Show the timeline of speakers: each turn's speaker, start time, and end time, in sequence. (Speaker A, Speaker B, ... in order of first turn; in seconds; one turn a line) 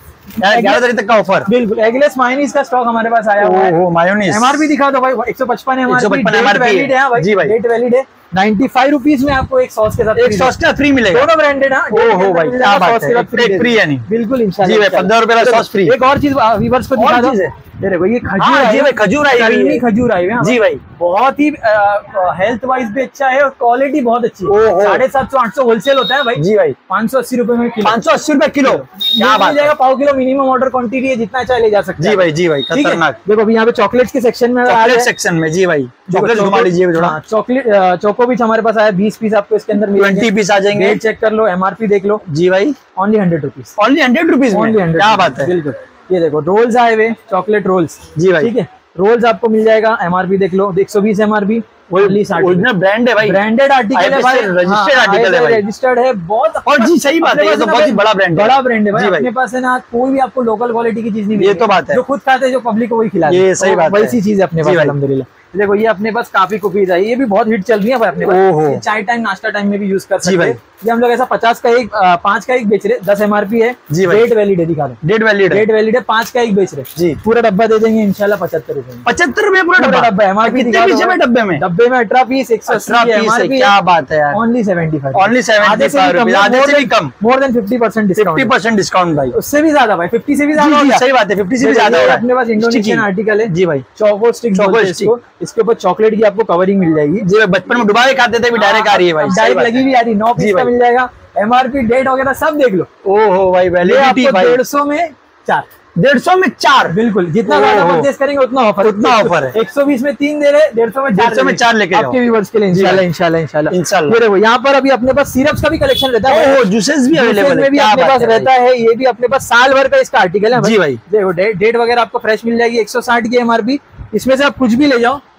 Speaker A: 0.4-0.8
Speaker B: 0.4-1.5
Speaker A: 1.4-3.7
Speaker B: 3.4-4.7
Speaker A: 4.3-10.6
Speaker B: 5.9-7.5
Speaker B: 10.1-11.3
Speaker A: 11.1-28.0
Speaker B: 11.9-14.0
Speaker B: 14.6-15.9
Speaker B: 16.9-17.5
Speaker B: 18.4-19.8
Speaker B: 20.4-20.8
Speaker B: 24.5-25.0
Speaker B: 26.4-26.8
Speaker B: 27.8-29.7
Speaker A: 28.6-35.1
Speaker B: 32.0-33.2
Speaker B: 34.6-37.2
Speaker A: 36.1-42.2
Speaker B: 39.9-41.0
Speaker B: 42.3-42.8
Speaker A: 43.0-43.7
Speaker B: 43.8-45.5
Speaker A: 44.5-52.7
Speaker B: 48.1-48.5
Speaker B: 51.9-55.6
Speaker A: 53.2-79.0
Speaker B: 56.6-59.3
Speaker B: 61.3-62.0
Speaker B: 63.2-64.9
Speaker B: 68.2-68.8
Speaker B: 70.2-70.5
Speaker B: 73.9-74.3
Speaker B: 75.0-75.7
Speaker B: 79.0-81.6
Speaker A: 79.8-83.7
Speaker B: 82.7-84.4
Speaker A: 84.3-88.5
Speaker B: 85.1-87.1
Speaker B: 88.2-89.3
Speaker A: 89.3-91.0
Speaker B: 90.5-93.8
Speaker A: 91.6-97.3
Speaker B: 94.5-95.1
Speaker B: 97.2-100.7
Speaker A: 98.5-102.9
Speaker B: 103.0-104.6
Speaker A: 103.8-105.7
Speaker B: 106.0-108.1
Speaker A: 106.9-125.2
Speaker B: 108.8-109.5
Speaker B: 111.1-112.2
Speaker B: 112.7-113.0
Speaker B: 113.7-114.2
Speaker B: 116.2-118.5
Speaker B: 120.5-121.0